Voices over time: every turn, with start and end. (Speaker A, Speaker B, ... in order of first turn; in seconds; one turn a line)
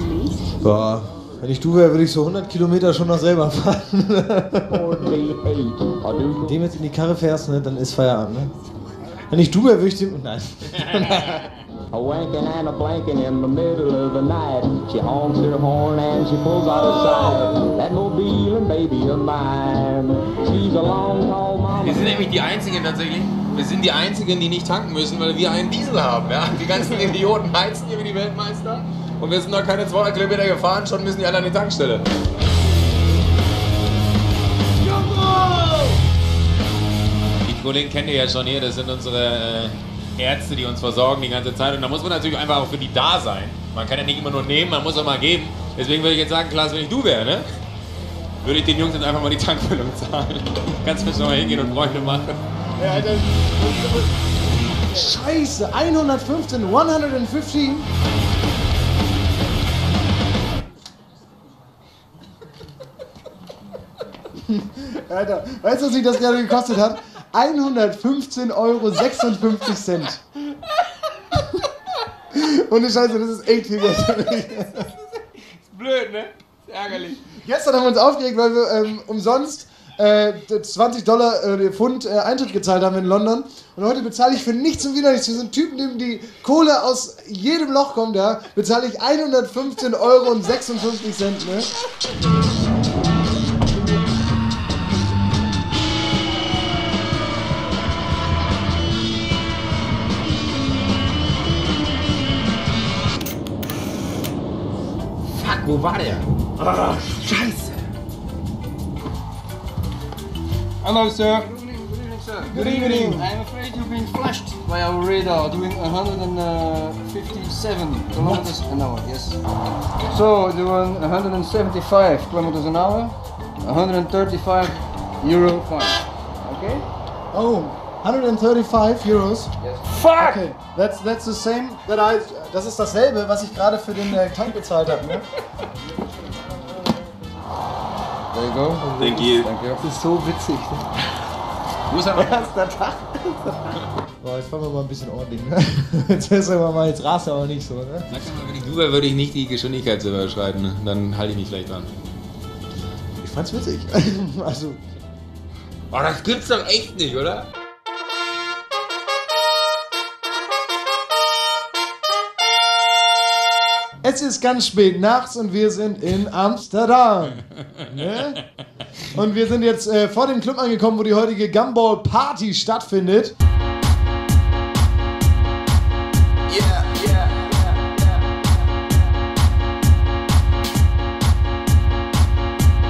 Speaker A: 0.4-5.1
Speaker B: 4.7-6.6
Speaker A: 6.4-8.5
Speaker A: 9.3-11.4
Speaker C: 11.0-11.5
Speaker B: 11.9-22.2
Speaker C: 16.8-17.4
Speaker C: 21.8-32.0
Speaker C: 34.9-35.9
Speaker C: 37.4-47.5
Speaker C: 48.4-52.4
Speaker A: 52.8-53.6
Speaker A: 54.9-57.9
Speaker A: 64.4-70.2
Speaker A: 72.3-74.9
Speaker C: 75.4-77.2
Speaker A: 77.2-91.7
Speaker C: 105.3-107.8
Speaker D: 110.8-119.4
Speaker A: 112.5-113.3
Speaker D: 120.0-126.8
Speaker A: 127.3-129.5
Speaker D: 129.6-130.4
Speaker A: 130.0-135.3
Speaker D: 138.3-140.8
Speaker C: 139.0-139.5
Speaker C: 141.9-142.7
Speaker A: 144.2-148.1
Speaker C: 148.1-151.9
Speaker A: 153.2-154.8
Speaker C: 155.9-157.5
Speaker A: 164.0-168.4
Speaker A: 169.1-173.3
Speaker C: 176.5-178.1